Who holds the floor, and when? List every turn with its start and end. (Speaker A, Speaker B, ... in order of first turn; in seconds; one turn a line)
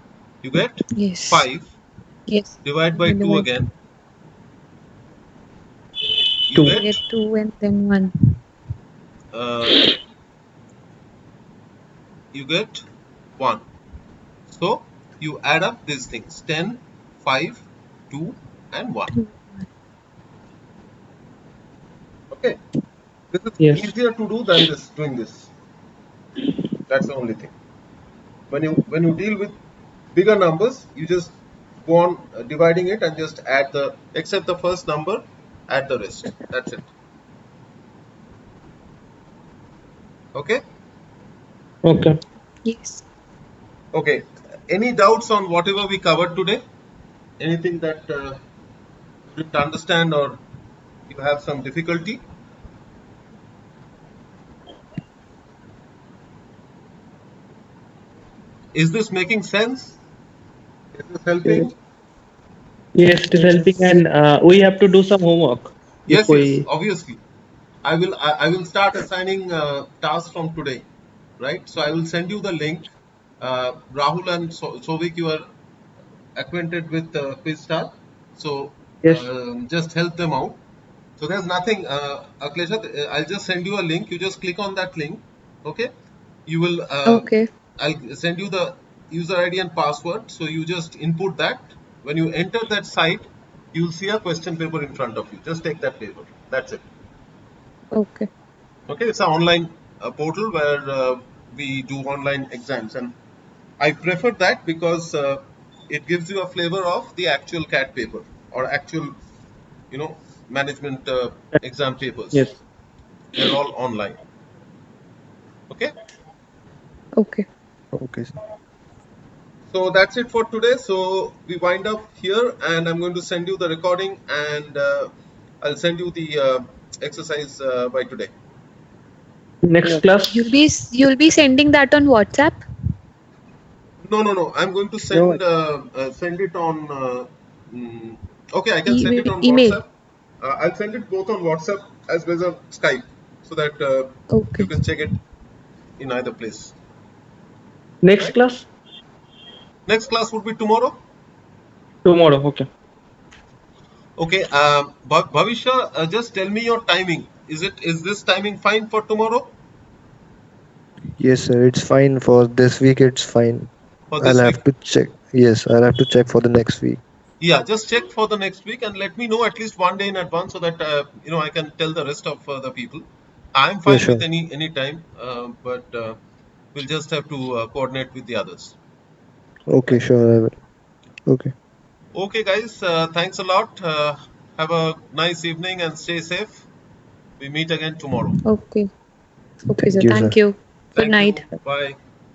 Speaker A: 0.4-1.7
Speaker B: 0.9-1.5
Speaker B: 2.3-3.5
Speaker A: 2.6-3.7
Speaker A: 6.5-7.0
Speaker B: 6.7-8.1
Speaker A: 9.3-9.9
Speaker A: 12.3-12.8
Speaker A: 13.4-13.6
Speaker A: 14.5-19.2
Speaker B: 19.1-19.7
Speaker A: 22.3-22.6
Speaker A: 23.3-25.5
Speaker C: 23.6-23.9
Speaker A: 26.9-27.5
Speaker A: 28.5-29.6
Speaker A: 30.1-31.3
Speaker A: 31.9-36.9
Speaker A: 40.3-40.6
Speaker C: 41.9-42.2
Speaker B: 42.6-43.0
Speaker A: 43.9-46.6
Speaker A: 47.4-48.4
Speaker A: 49.3-50.4
Speaker A: 51.1-52.2
Speaker A: 58.7-60.0
Speaker A: 60.9-61.8
Speaker C: 63.0-66.7
Speaker D: 63.4-63.7
Speaker A: 66.1-67.2
Speaker A: 67.8-70.8
Speaker A: 71.4-72.9
Speaker A: 73.4-75.5
Speaker A: 76.4-80.6
Speaker A: 81.2-85.9
Speaker A: 86.5-87.3
Speaker B: 87.1-87.5
Speaker A: 87.8-96.8
Speaker B: 97.9-98.3
Speaker A: 98.9-103.2
Speaker A: 103.8-109.2
Speaker A: 109.9-112.5
Speaker A: 113.3-114.2
Speaker B: 117.2-117.5
Speaker D: 117.9-118.3
Speaker A: 119.7-125.1
Speaker A: 125.6-128.3
Speaker C: 129.6-130.5
Speaker B: 130.3-132.6
Speaker A: 134.0-139.9
Speaker B: 138.9-139.8
Speaker A: 140.4-145.2
Speaker B: 144.3-144.7
Speaker A: 146.0-146.7
Speaker C: 148.0-148.7
Speaker A: 149.9-151.0
Speaker C: 152.1-152.7
Speaker A: 154.2-159.5
Speaker D: 161.2-167.0
Speaker A: 164.1-164.6
Speaker A: 167.4-176.2
Speaker D: 173.9-174.2
Speaker A: 176.7-178.8
Speaker D: 179.7-180.6
Speaker D: 181.3-181.5
Speaker A: 182.1-186.7
Speaker A: 187.4-188.4
Speaker B: 188.4-188.9
Speaker B: 189.7-191.5
Speaker D: 189.8-190.4
Speaker A: 191.0-192.0